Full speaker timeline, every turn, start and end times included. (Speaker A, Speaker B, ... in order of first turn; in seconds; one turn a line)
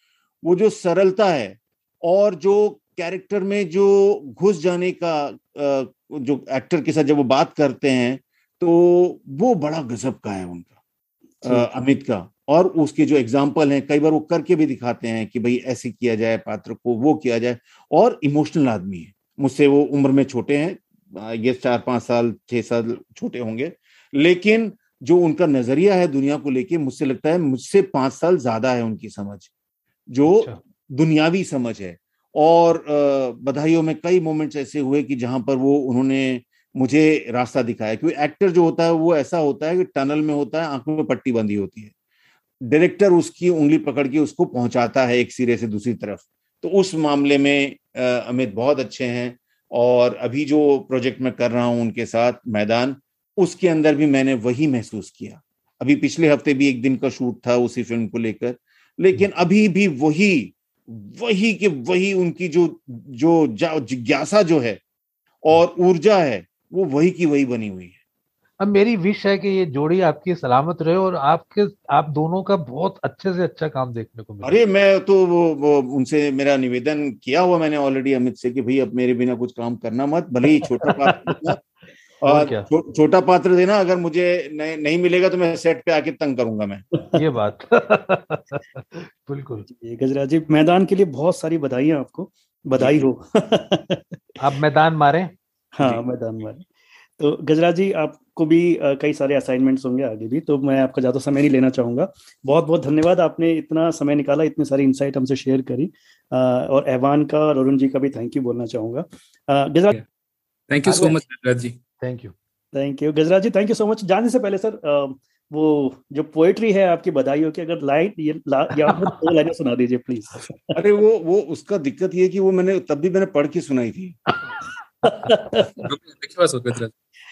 Speaker A: 0.4-10.7
Speaker A: 11.4-29.5
Speaker A: 30.1-41.9
Speaker B: 30.3-30.6
Speaker A: 42.6-64.8
Speaker A: 65.4-68.0
Speaker B: 68.6-74.6
Speaker A: 74.4-81.6
Speaker B: 82.2-82.7
Speaker A: 82.3-86.8
Speaker B: 87.1-89.7
Speaker C: 89.7-94.4
Speaker A: 92.8-93.1
Speaker B: 94.4-95.3
Speaker C: 95.8-110.0
Speaker D: 110.7-111.8
Speaker B: 110.8-111.2
Speaker B: 112.0-112.3
Speaker C: 112.7-120.7
Speaker A: 120.7-124.2
Speaker C: 125.0-125.8
Speaker D: 125.8-126.9